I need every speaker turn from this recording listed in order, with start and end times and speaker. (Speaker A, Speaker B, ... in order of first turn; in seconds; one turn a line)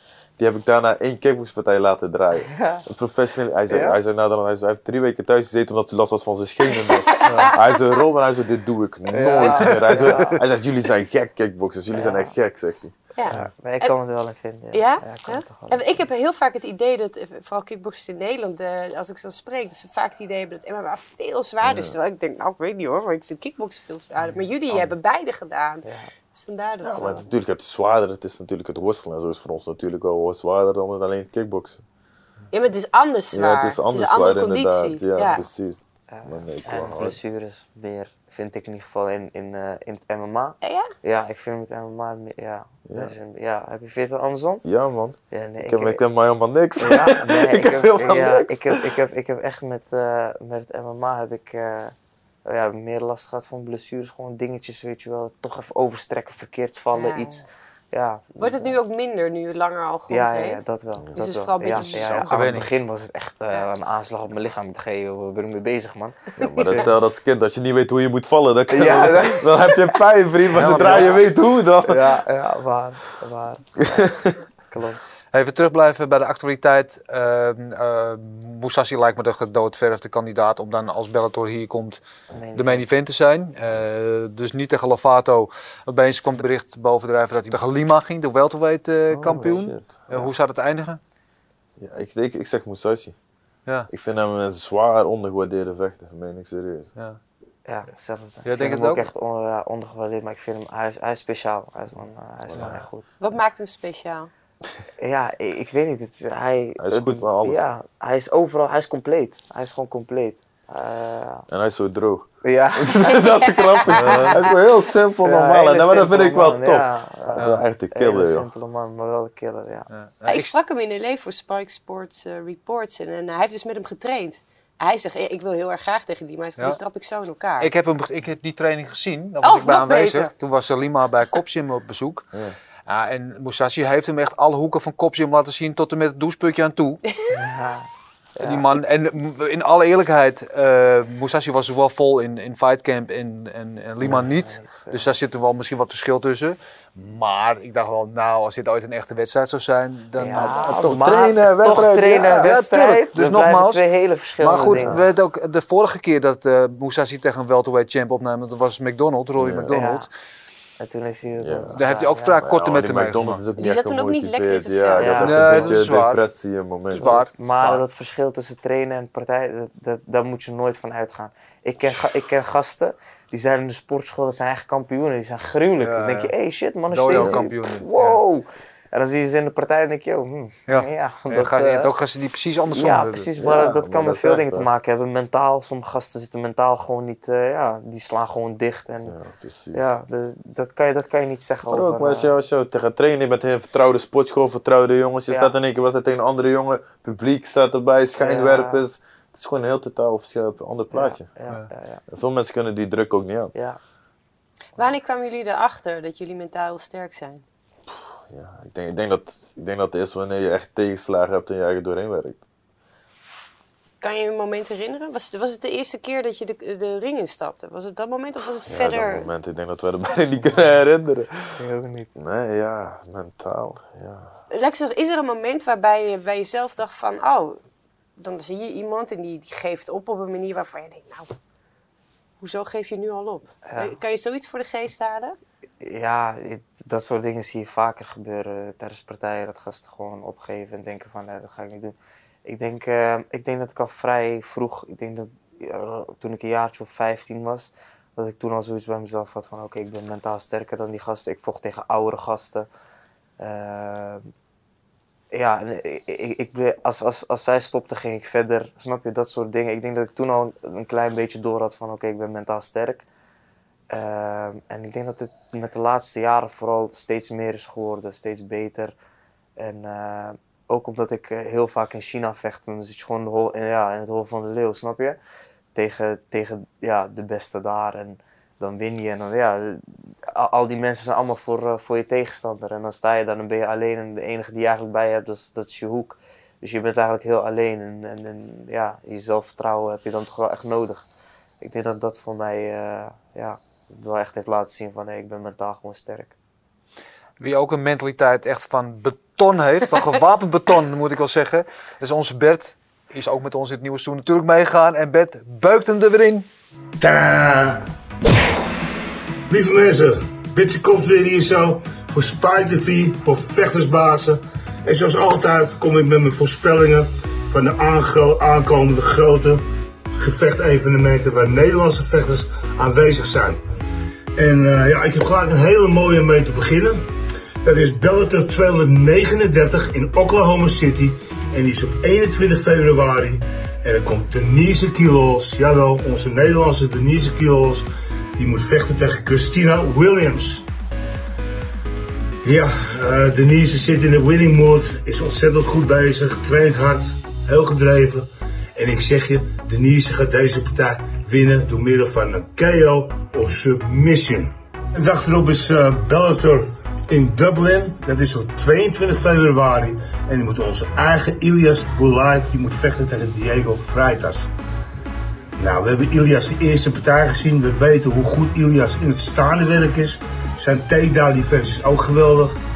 Speaker A: 0.4-13.5
Speaker B: 2.5-2.8
Speaker B: 3.7-4.0
Speaker C: 6.8-7.8
Speaker D: 7.2-7.5
Speaker B: 9.1-10.3
Speaker D: 9.8-10.2
Speaker B: 11.9-12.3
Speaker C: 13.2-13.9
Speaker B: 13.3-15.9
Speaker C: 14.7-27.3
Speaker A: 21.6-21.9
Speaker B: 25.8-26.1
Speaker A: 26.8-31.8
Speaker C: 32.5-35.5
Speaker A: 33.3-37.2
Speaker B: 36.1-44.6
Speaker C: 40.6-40.9
Speaker A: 42.9-43.1
Speaker A: 44.6-49.0
Speaker B: 45.3-46.0
Speaker B: 46.8-58.8
Speaker C: 56.9-57.4
Speaker C: 58.4-60.6
Speaker B: 60.1-66.9
Speaker C: 61.1-62.5
Speaker D: 61.7-62.7
Speaker A: 66.4-72.2
Speaker C: 66.4-66.8
Speaker B: 68.7-69.9
Speaker D: 70.5-71.2
Speaker B: 70.7-71.1
Speaker B: 71.8-75.0
Speaker A: 74.0-74.3
Speaker D: 75.3-82.0
Speaker B: 82.3-82.8
Speaker D: 82.5-91.0
Speaker A: 89.1-89.9
Speaker B: 89.2-89.5
Speaker A: 91.8-93.2
Speaker A: 93.9-96.9
Speaker B: 97.6-103.0
Speaker D: 98.4-99.1
Speaker A: 102.5-102.9
Speaker C: 103.2-104.3
Speaker B: 105.0-111.5
Speaker A: 106.8-107.7
Speaker A: 111.5-118.5
Speaker B: 112.4-114.5
Speaker C: 113.2-114.3
Speaker B: 115.2-119.9
Speaker D: 117.4-117.6
Speaker D: 119.9-120.6
Speaker C: 120.3-127.7
Speaker D: 127.6-132.3
Speaker C: 129.4-130.3
Speaker D: 132.8-137.0
Speaker B: 137.3-138.7
Speaker D: 138.4-150.9
Speaker B: 144.0-145.0
Speaker B: 150.2-155.0
Speaker A: 150.3-152.5
Speaker D: 152.3-153.8
Speaker D: 154.4-160.1
Speaker A: 154.7-155.0
Speaker A: 159.4-159.8
Speaker B: 159.7-160.1
Speaker B: 160.8-162.4
Speaker A: 161.4-161.8
Speaker D: 161.7-163.4
Speaker A: 162.4-167.2
Speaker C: 163.6-165.5
Speaker B: 165.0-165.8
Speaker D: 165.2-166.2
Speaker D: 166.9-167.8
Speaker B: 166.9-181.9
Speaker D: 175.8-176.3
Speaker D: 176.9-178.2
Speaker A: 177.1-177.5
Speaker D: 180.7-183.3
Speaker B: 182.7-189.2
Speaker A: 183.4-184.7
Speaker A: 189.0-189.9
Speaker B: 189.7-192.3
Speaker A: 191.7-201.2
Speaker B: 198.2-198.8
Speaker B: 200.9-202.0
Speaker A: 202.1-203.5
Speaker B: 203.5-203.8
Speaker C: 204.8-207.4
Speaker A: 207.9-212.4
Speaker C: 214.0-219.3
Speaker A: 218.6-221.6
Speaker B: 221.6-222.1
Speaker A: 222.2-224.4
Speaker C: 224.5-227.6
Speaker C: 228.2-231.3
Speaker C: 232.4-235.4
Speaker B: 233.7-233.9
Speaker B: 235.8-252.7
Speaker B: 253.4-254.3
Speaker B: 255.3-263.1
Speaker B: 263.9-268.9
Speaker B: 269.6-275.2
Speaker B: 275.7-291.1
Speaker B: 291.6-296.3
Speaker D: 297.4-306.5
Speaker E: 307.0-307.9
Speaker E: 309.5-323.6
Speaker E: 324.4-327.1
Speaker E: 327.6-337.9
Speaker E: 338.4-340.7
Speaker E: 342.4-364.5
Speaker E: 365.6-372.6